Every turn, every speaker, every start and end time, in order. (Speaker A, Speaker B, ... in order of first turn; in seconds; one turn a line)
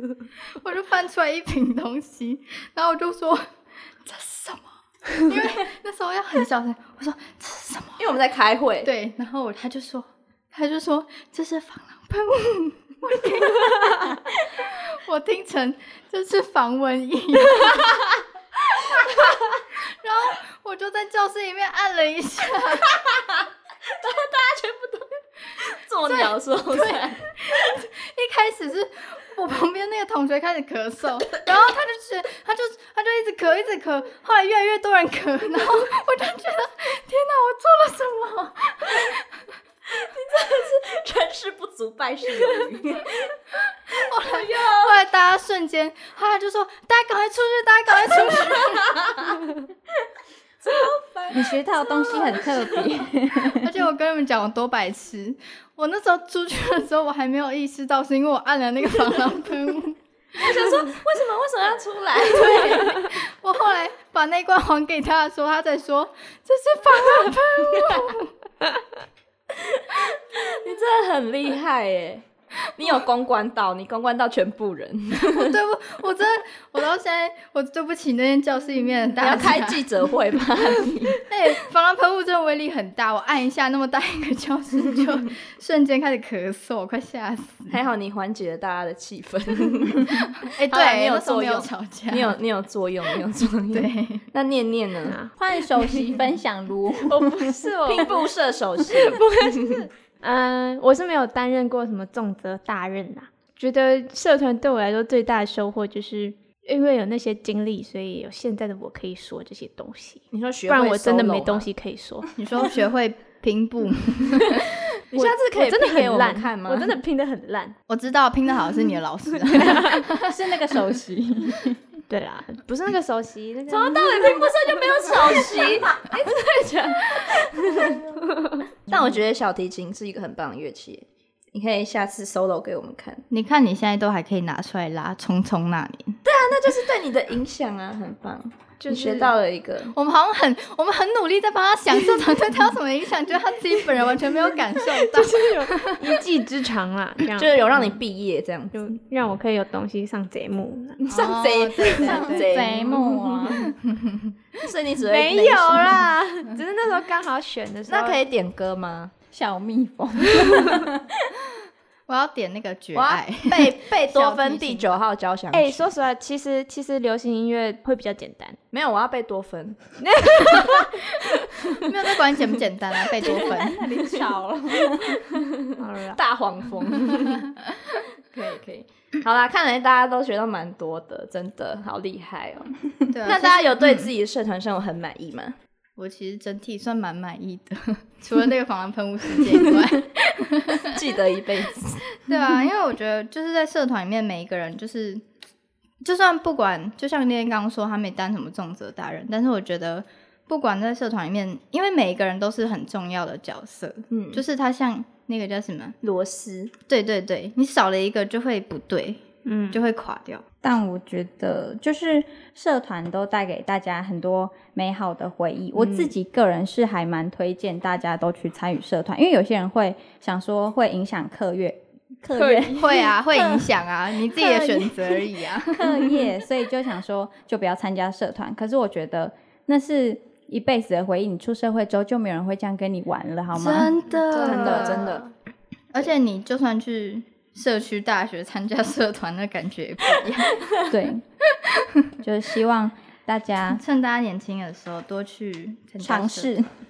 Speaker A: 0.6-3.5
Speaker A: 4.0-8.0
Speaker B: 8.0-8.9
Speaker A: 8.8-17.9
Speaker A: 18.9-23.0
Speaker B: 22.9-27.3
Speaker A: 26.1-39.5
Speaker B: 39.9-43.3
Speaker B: 43.9-45.0
Speaker A: 43.9-49.2
Speaker B: 48.0-49.4
Speaker B: 50.6-52.6
Speaker C: 51.3-53.7
Speaker A: 53.5-60.8
Speaker B: 60.4-63.1
Speaker A: 62.2-68.3
Speaker B: 69.5-75.6
Speaker A: 75.3-79.8
Speaker B: 79.2-81.2
Speaker A: 81.1-87.8
Speaker B: 87.7-95.2
Speaker A: 90.1-92.3
Speaker A: 93.7-94.2
Speaker D: 95.1-95.3
Speaker C: 95.4-97.6
Speaker D: 97.0-98.3
Speaker B: 97.8-99.8
Speaker D: 98.9-112.3
Speaker B: 110.3-111.7
Speaker A: 112.4-114.7
Speaker B: 115.1-116.9
Speaker D: 115.1-117.7
Speaker A: 117.9-120.4
Speaker D: 119.5-120.0
Speaker C: 120.2-121.8
Speaker D: 122.1-126.1
Speaker B: 123.7-128.2
Speaker D: 128.2-128.6
Speaker B: 128.9-133.2
Speaker A: 133.3-136.2
Speaker B: 136.2-139.9
Speaker D: 138.8-139.3
Speaker A: 139.9-146.1
Speaker D: 145.1-147.5
Speaker B: 147.4-148.8
Speaker D: 148.7-151.0
Speaker B: 151.0-153.6
Speaker A: 151.1-152.9
Speaker C: 152.0-153.7
Speaker A: 153.5-154.3
Speaker B: 154.6-156.1
Speaker D: 155.1-158.2
Speaker B: 157.9-159.1
Speaker C: 159.3-161.3
Speaker A: 162.1-164.9
Speaker B: 162.9-165.9
Speaker D: 165.5-168.6
Speaker B: 168.7-170.7
Speaker D: 170.0-171.0
Speaker A: 171.8-173.8
Speaker C: 173.3-175.2
Speaker B: 174.9-177.5
Speaker D: 175.8-176.2
Speaker B: 178.3-182.7
Speaker A: 183.1-184.1
Speaker B: 183.2-185.5
Speaker A: 186.0-190.9
Speaker B: 189.5-189.9
Speaker B: 190.8-192.0
Speaker A: 192.2-195.2
Speaker A: 196.0-206.0
Speaker B: 204.1-204.4
Speaker B: 206.0-206.7
Speaker A: 206.9-210.4
Speaker D: 209.4-209.8
Speaker C: 210.6-222.9
Speaker D: 222.3-223.6
Speaker A: 222.8-226.3
Speaker D: 224.3-224.9
Speaker C: 225.7-233.9
Speaker A: 233.5-235.2
Speaker D: 234.3-235.2
Speaker B: 234.3-235.3
Speaker A: 235.9-240.6
Speaker C: 240.9-241.2
Speaker C: 242.2-243.8
Speaker A: 243.7-246.5
Speaker C: 246.0-246.7